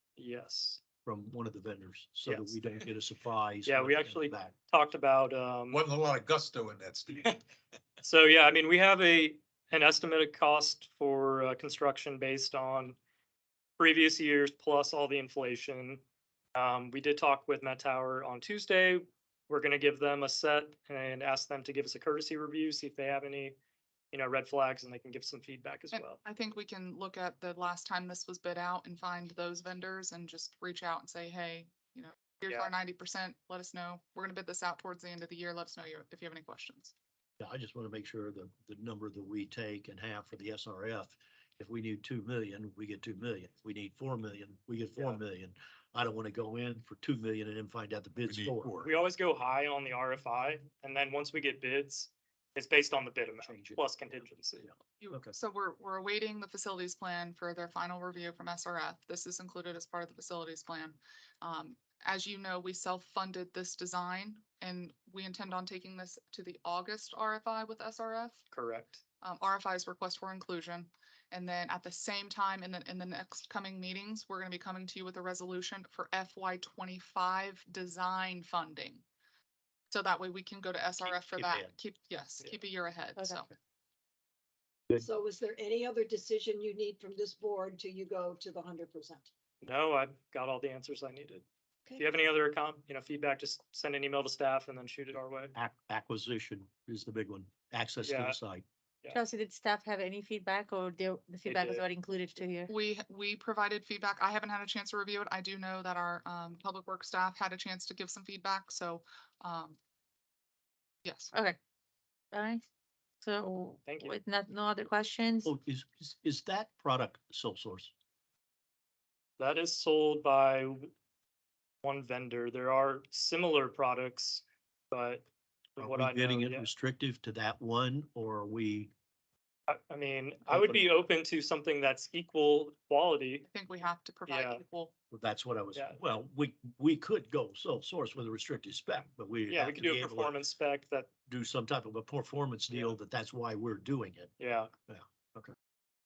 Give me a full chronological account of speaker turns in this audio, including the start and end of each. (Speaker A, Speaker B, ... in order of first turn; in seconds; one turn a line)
Speaker A: 0.2-0.8
Speaker B: 1.0-4.5
Speaker A: 2.2-2.8
Speaker A: 3.6-5.8
Speaker C: 5.7-7.4
Speaker A: 8.0-13.0
Speaker A: 13.8-16.0
Speaker A: 16.5-23.6
Speaker A: 24.1-26.2
Speaker D: 25.9-36.9
Speaker B: 37.4-48.7
Speaker A: 44.9-45.2
Speaker C: 48.2-48.9
Speaker A: 48.8-54.7
Speaker B: 53.4-55.3
Speaker D: 55.0-68.4
Speaker A: 68.5-69.0
Speaker D: 69.2-79.0
Speaker D: 79.9-83.5
Speaker B: 81.1-81.7
Speaker E: 85.0-89.3
Speaker A: 89.6-91.4
Speaker A: 92.0-95.5
Speaker B: 95.5-98.6
Speaker A: 98.0-98.4
Speaker F: 99.1-102.7
Speaker A: 101.5-101.8
Speaker D: 102.7-109.8
Speaker D: 111.0-111.3
Speaker F: 112.3-112.6
Speaker F: 113.2-115.5
Speaker A: 113.8-114.2
Speaker B: 115.4-117.9
Speaker A: 119.4-120.9
Speaker A: 121.8-126.7
Speaker B: 125.8-128.9
Speaker A: 129.7-133.5
Speaker B: 130.5-130.8
Speaker D: 133.4-134.9
Speaker A: 134.3-134.6
Speaker B: 135.1-140.4
Speaker A: 139.5-141.1
Speaker B: 141.3-144.3
Speaker A: 142.7-142.9
Speaker A: 144.4-144.7
Speaker B: 144.9-145.5